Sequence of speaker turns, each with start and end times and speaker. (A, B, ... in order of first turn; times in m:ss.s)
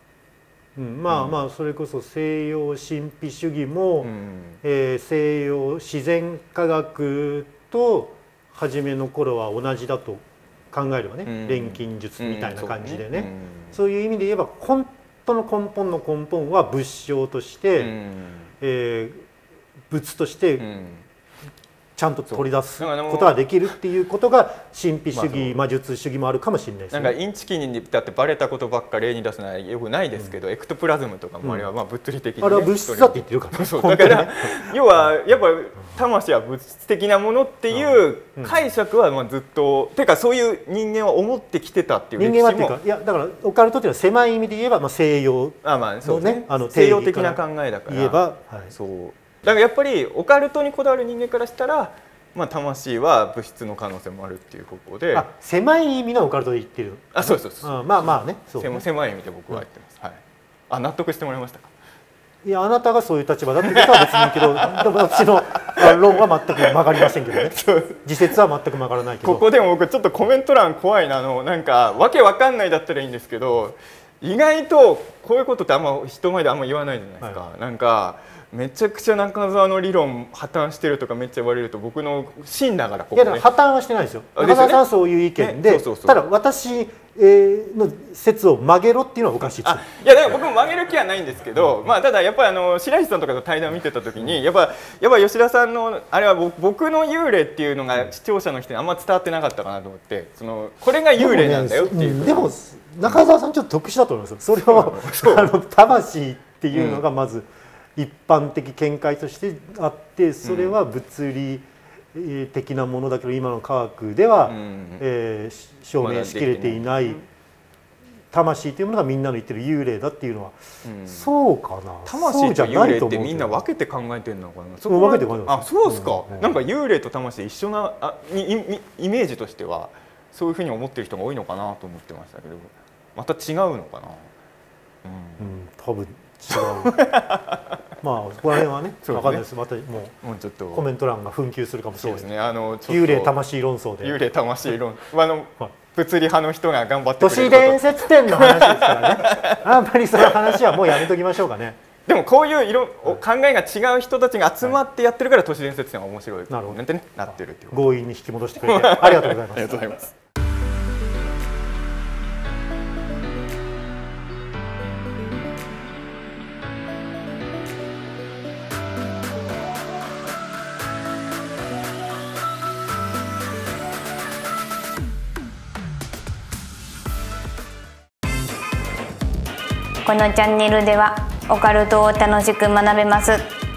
0:00.8-0:04.1 A
0:01.1-0:01.4 B
0:04.0-0:04.6 B
0:04.6-0:17.9 A
0:11.2-0:13.7 B
0:17.8-0:18.5 B
0:18.6-0:19.2 A
0:19.9-0:20.6 A
0:20.6-0:21.0 B
0:22.0-0:27.1 A
0:22.3-0:23.4 B
0:25.1-0:25.5 B
0:26.9-0:42.8 B
0:32.4-0:34.6 A
0:37.7-0:38.6 A
0:42.2-0:48.7 A
0:45.6-0:55.3 B
0:55.1-0:58.8 A
0:57.1-1:00.2 B
1:00.7-1:01.7 B
1:02.4-1:09.4 A
1:03.7-1:08.3 B
1:09.2-1:23.4 B
1:23.1-1:29.8 A
1:24.4-1:24.8 B
1:25.4-1:26.2 B
1:29.6-1:42.5 B
1:41.2-1:57.2 A
1:44.6-1:45.5 B
1:46.7-1:47.0 B
1:50.4-1:50.7 B
1:54.4-1:55.0 B
1:56.0-1:57.2 B
1:58.3-2:00.6 A
2:00.8-2:01.3 B
2:01.1-2:03.6 A
2:02.0-2:14.2 B
2:04.9-2:06.6 A
2:15.0-2:15.5 B
2:15.4-2:17.1 A
2:16.5-2:17.8 B
2:18.0-2:20.1 A
2:19.0-2:19.4 B
2:20.2-2:20.8 B
2:20.7-2:22.3 A
2:22.0-2:23.3 B
2:22.9-2:24.2 A
2:24.0-2:31.0 B
2:27.2-2:31.8 A
2:32.0-2:37.8 B
2:36.5-2:36.8 A
2:37.7-2:40.0 A
2:38.6-2:40.1 B
3:00.0-3:03.5 C